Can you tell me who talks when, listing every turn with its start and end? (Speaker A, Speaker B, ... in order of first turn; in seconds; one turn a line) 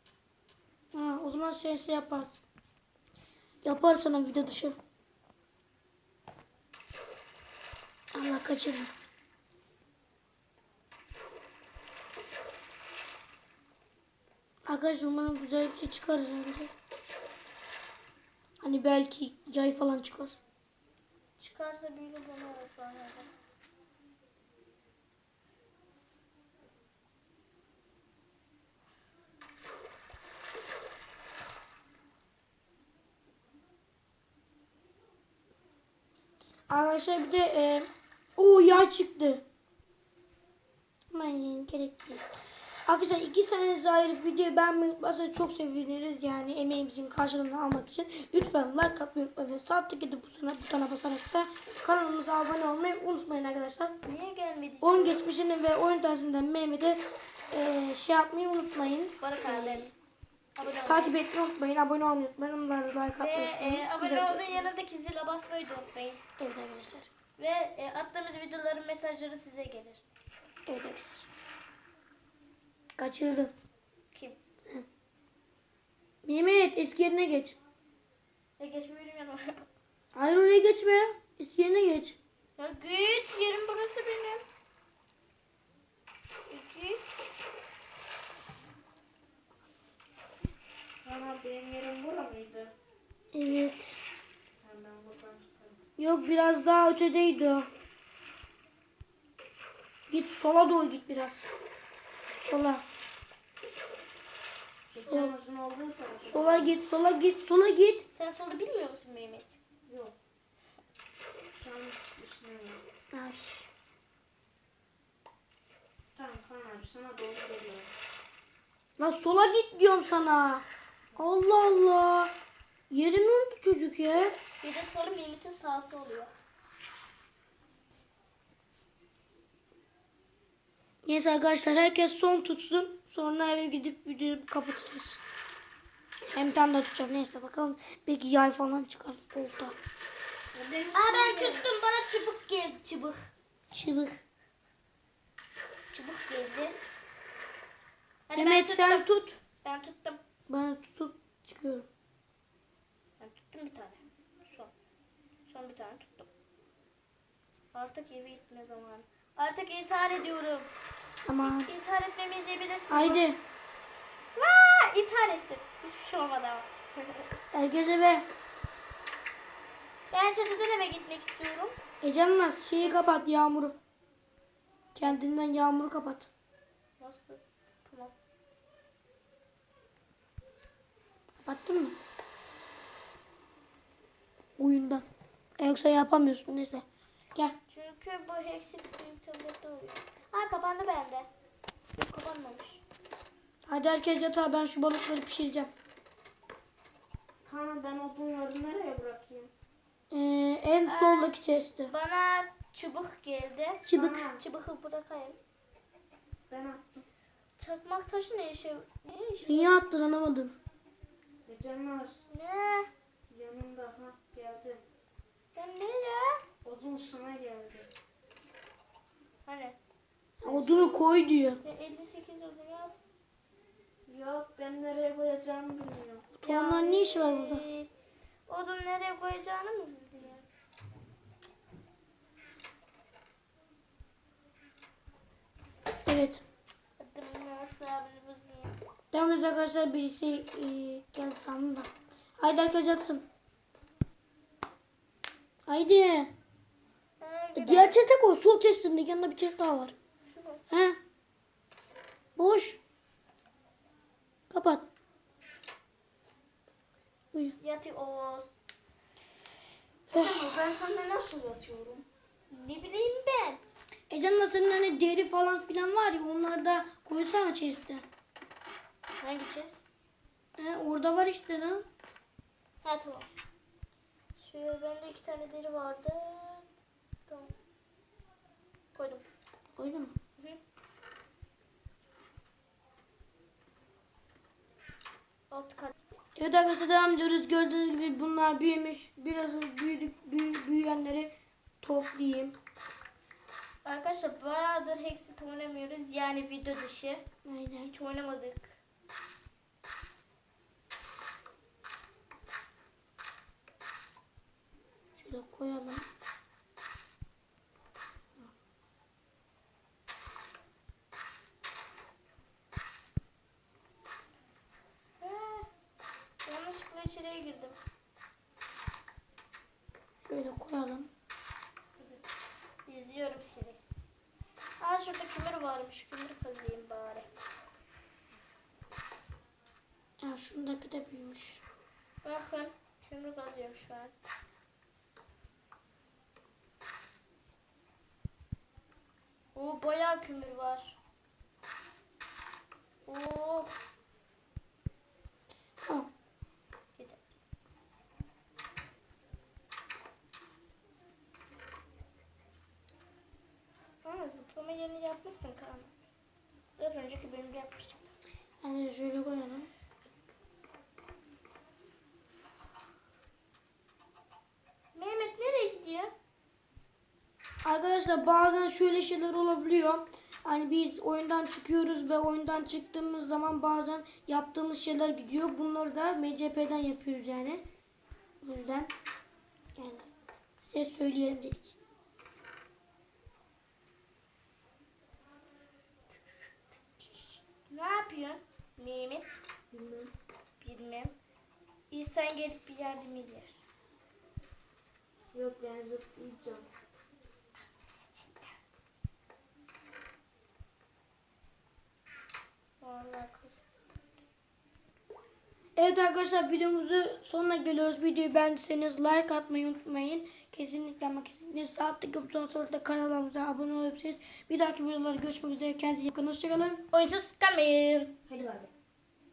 Speaker A: 0.9-2.4
Speaker A: 3.6-4.8
Speaker A: 8.1-8.9
Speaker A: 14.7-16.7
Speaker A: 18.6-20.4
Speaker B: 21.4-23.3
Speaker A: 36.7-39.4
Speaker A: 41.1-42.2
Speaker A: 42.9-53.9
Speaker B: 54.0-55.2
Speaker A: 54.8-59.9
Speaker B: 59.2-59.9
Speaker B: 60.6-61.1
Speaker A: 60.8-64.7
Speaker B: 63.1-66.2
Speaker A: 66.4-67.1
Speaker B: 67.4-70.0
Speaker A: 70.7-71.3
Speaker A: 73.0-73.5
Speaker B: 74.1-74.4
Speaker A: 76.2-77.6
Speaker B: 78.6-79.6
Speaker A: 80.1-82.2
Speaker B: 82.6-84.4
Speaker B: 86.5-87.0
Speaker C: 91.0-92.7
Speaker A: 93.3-94.0
Speaker C: 94.6-95.8
Speaker A: 96.0-97.7
Speaker A: 100.1-101.5
Speaker A: 102.4-102.8
Speaker A: 104.9-105.3
Speaker C: 104.9-106.8
Speaker A: 106.2-108.0
Speaker B: 108.1-109.6
Speaker C: 109.9-110.1
Speaker C: 111.6-112.8
Speaker A: 113.1-113.7
Speaker C: 116.2-117.9
Speaker A: 119.0-120.6
Speaker A: 121.2-122.3
Speaker A: 122.9-124.3
Speaker B: 124.5-126.3
Speaker A: 131.0-135.2
Speaker A: 136.3-139.8
Speaker C: 140.5-141.7
Speaker B: 140.9-143.3
Speaker A: 143.7-144.2
Speaker B: 145.9-146.8
Speaker B: 148.3-150.2
Speaker A: 148.3-149.4
Speaker A: 150.5-151.9
Speaker B: 153.2-154.7
Speaker B: 155.5-156.3
Speaker B: 157.7-160.7
Speaker A: 161.2-161.7
Speaker B: 161.4-163.2
Speaker A: 162.9-163.4
Speaker B: 164.3-167.3
Speaker A: 167.5-168.3
Speaker B: 170.1-171.8
Speaker A: 172.0-173.8
Speaker B: 172.8-173.2
Speaker A: 174.9-176.3
Speaker B: 177.0-178.1
Speaker A: 181.4-182.0
Speaker A: 184.6-185.0
Speaker A: 185.6-187.6
Speaker B: 187.7-191.3
Speaker B: 191.9-192.8
Speaker A: 193.7-195.7
Speaker C: 197.4-199.5
Speaker A: 200.1-201.9
Speaker B: 200.8-205.4
Speaker A: 203.8-204.2
Speaker C: 203.9-204.4
Speaker C: 206.5-207.0
Speaker B: 207.6-209.7
Speaker A: 209.4-210.5
Speaker C: 211.4-212.2
Speaker B: 212.3-212.9
Speaker C: 213.3-214.8
Speaker B: 215.5-216.4
Speaker C: 216.6-217.9
Speaker B: 219.4-219.8
Speaker A: 220.4-221.6
Speaker C: 220.4-221.0
Speaker B: 221.6-222.9
Speaker C: 224.1-226.3
Speaker A: 226.4-227.6
Speaker B: 226.4-227.9
Speaker B: 228.5-230.5
Speaker A: 236.0-236.4
Speaker B: 237.0-238.8
Speaker A: 239.1-243.2
Speaker A: 245.7-246.3
Speaker B: 247.2-248.1
Speaker A: 247.5-249.9
Speaker B: 250.2-250.6
Speaker A: 250.7-251.0
Speaker A: 252.3-252.8
Speaker A: 254.5-254.8
Speaker B: 257.6-258.4
Speaker A: 260.1-260.5
Speaker C: 260.1-262.1
Speaker B: 262.5-263.6
Speaker A: 264.1-268.0
Speaker B: 269.2-269.8
Speaker A: 270.6-271.8
Speaker B: 272.8-273.3
Speaker B: 274.4-276.6
Speaker B: 277.3-277.5
Speaker B: 278.9-279.2
Speaker A: 279.7-280.1
Speaker B: 285.5-285.9
Speaker A: 286.4-292.6
Speaker B: 293.8-297.2
Speaker A: 297.4-297.9
Speaker B: 297.8-298.8
Speaker A: 305.1-306.1
Speaker B: 315.2-315.7
Speaker B: 316.4-317.8
Speaker A: 320.2-321.1
Speaker B: 322.9-323.8
Speaker B: 324.8-327.3
Speaker A: 330.2-331.6
Speaker B: 332.2-334.1
Speaker B: 339.5-341.0
Speaker B: 343.1-343.7
Speaker A: 345.8-346.1
Speaker B: 354.0-355.9
Speaker B: 356.8-358.1
Speaker A: 358.6-359.7
Speaker B: 364.9-366.1
Speaker A: 367.6-377.6
Speaker A: 378.4-378.9
Speaker A: 379.8-380.0
Speaker A: 380.6-381.8
Speaker B: 387.0-389.3
Speaker C: 389.7-390.1
Speaker B: 390.6-391.1
Speaker B: 391.9-393.6
Speaker C: 395.3-396.7
Speaker B: 397.9-398.5
Speaker B: 402.8-403.6
Speaker A: 405.8-416.8
Speaker B: 416.9-418.2
Speaker C: 418.3-418.7